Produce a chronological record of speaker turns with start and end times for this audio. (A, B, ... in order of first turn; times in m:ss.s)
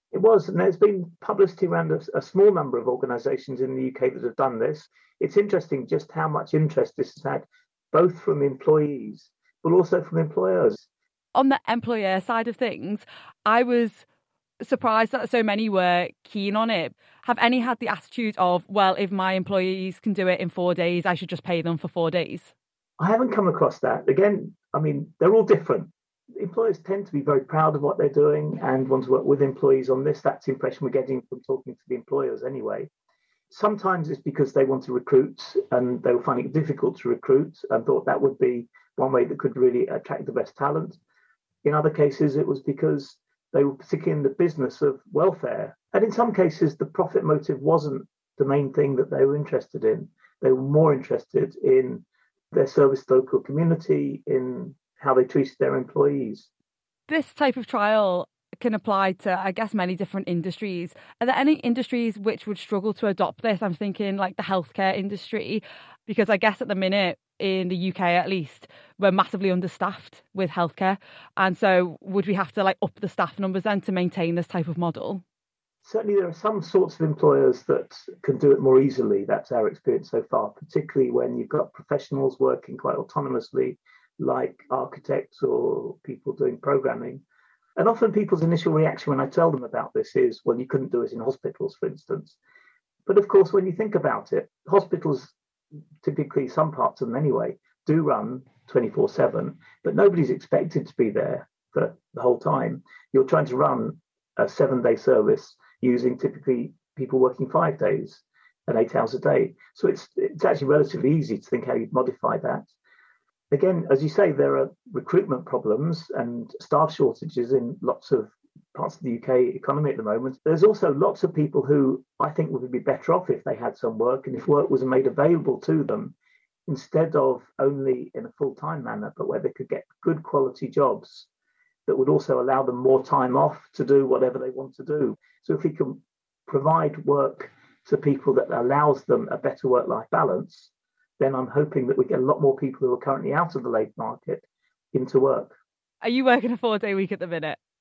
0:00.1-0:10.8 A
0:11.3-0:14.0 B
0:14.6-0:22.5 B
0:23.0-0:32.9 A
0:33.5-0:41.0 A
0:41.6-0:56.5 A
0:57.1-1:15.2 B
1:15.8-1:27.2 A
1:27.8-1:32.4 A
1:33.1-1:35.3 A
1:36.0-1:52.7 A
1:53.5-2:06.1 A
2:06.7-2:11.3 A
2:11.9-2:25.5 A
2:26.0-2:27.6 B